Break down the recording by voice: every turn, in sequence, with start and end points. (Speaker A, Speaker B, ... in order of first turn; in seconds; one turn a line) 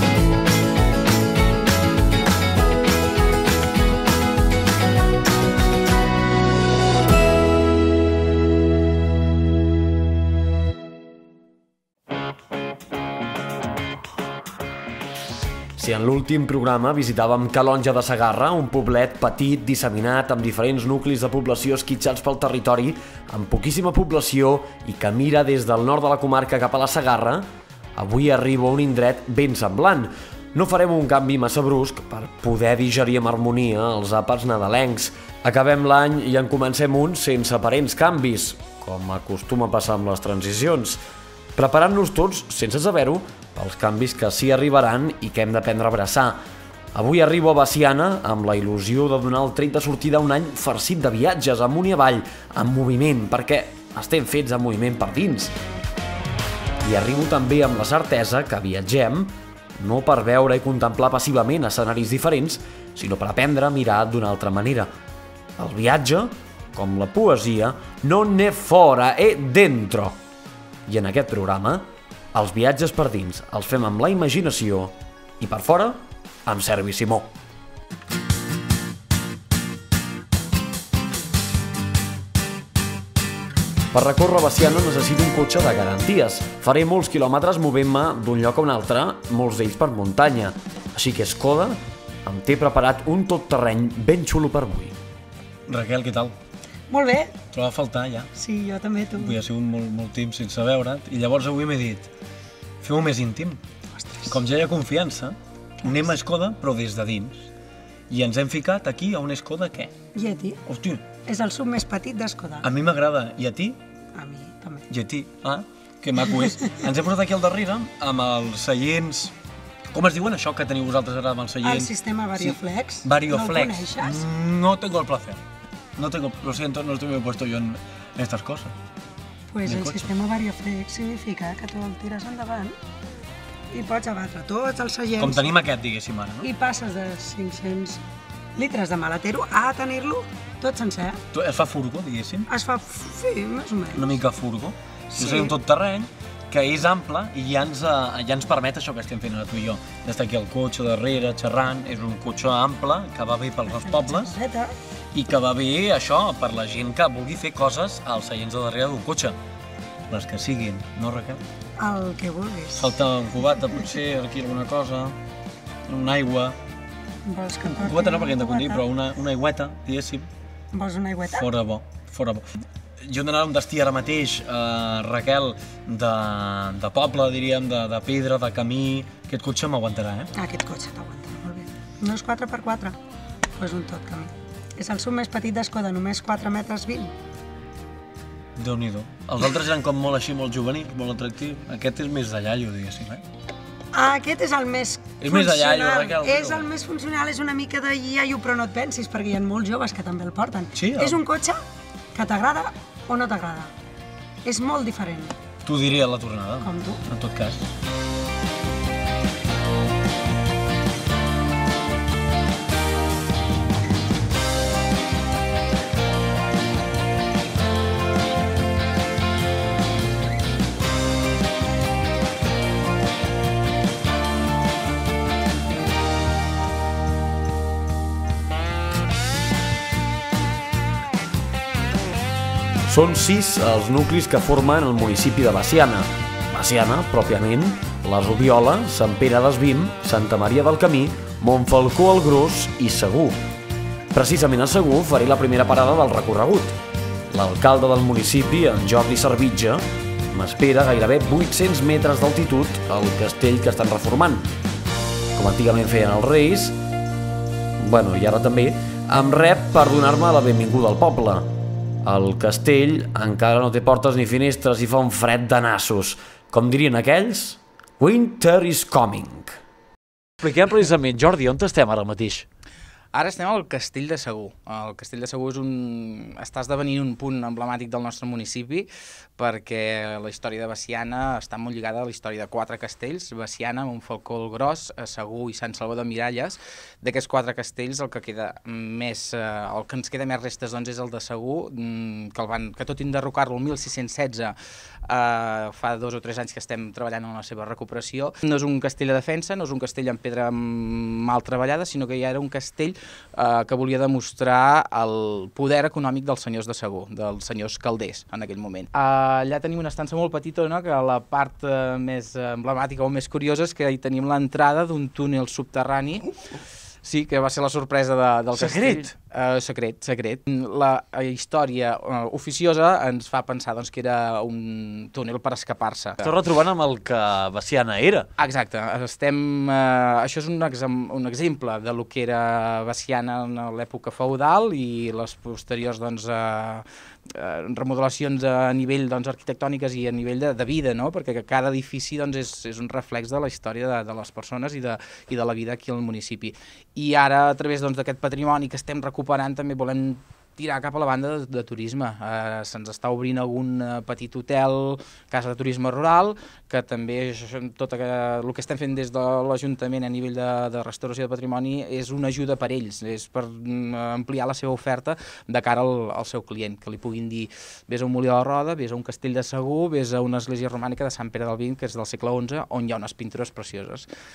Speaker A: 15.8-41.0
Speaker A: 41.5-46.4
Speaker A: 46.9-55.5
Speaker A: 56.8-64.9
Speaker A: 65.6-70.2
Speaker A: 70.9-77.3
Speaker A: 83.9-94.9
Speaker B: 95.7-96.3
Speaker C: 96.9-97.3
Speaker B: 97.5-98.3
Speaker C: 98.3-99.4
Speaker B: 99.2-102.1
Speaker B: 102.8-103.6
Speaker C: 104.0-104.4
Speaker B: 104.3-107.5
Speaker C: 105.8-106.1
Speaker B: 108.1-109.9
Speaker C: 110.1-110.6
Speaker B: 110.7-111.0
Speaker C: 111.2-112.7
Speaker B: 112.6-113.8
Speaker C: 114.1-114.8
Speaker B: 114.9-119.3
Speaker C: 116.2-116.8
Speaker B: 119.9-125.4
Speaker C: 121.6-124.2
Speaker B: 126.0-128.7
Speaker C: 129.5-132.8
Speaker B: 129.7-130.1
Speaker C: 133.7-135.6
Speaker B: 135.2-136.5
Speaker C: 136.4-138.0
Speaker C: 138.6-141.2
Speaker B: 141.3-142.5
Speaker C: 142.5-144.2
Speaker B: 143.9-154.3
Speaker C: 145.1-145.6
Speaker C: 153.7-154.8
Speaker B: 155.1-159.4
Speaker B: 160.1-161.4
Speaker C: 161.8-163.8
Speaker B: 162.8-165.2
Speaker B: 165.9-166.6
Speaker C: 167.2-168.8
Speaker B: 167.7-170.3
Speaker C: 170.7-171.5
Speaker B: 171.3-172.5
Speaker B: 173.0-180.3
Speaker C: 180.3-183.0
Speaker C: 183.6-187.1
Speaker B: 188.6-193.2
Speaker C: 193.9-201.6
Speaker B: 195.2-196.6
Speaker B: 200.7-201.2
Speaker C: 202.1-203.7
Speaker C: 204.4-205.3
Speaker B: 205.6-207.7
Speaker C: 206.6-207.0
Speaker A: 232.9-243.4
Speaker A: 244.1-246.7
Speaker A: 247.3-254.5
Speaker A: 255.3-256.7
Speaker A: 257.8-261.5
Speaker A: 262.0-269.6
Speaker B: 270.4-272.4
Speaker D: 273.1-294.5
Speaker D: 295.1-316.3
Speaker D: 317.0-326.3
Speaker B: 318.5-319.1
Speaker B: 326.2-328.3
Speaker D: 328.4-374.1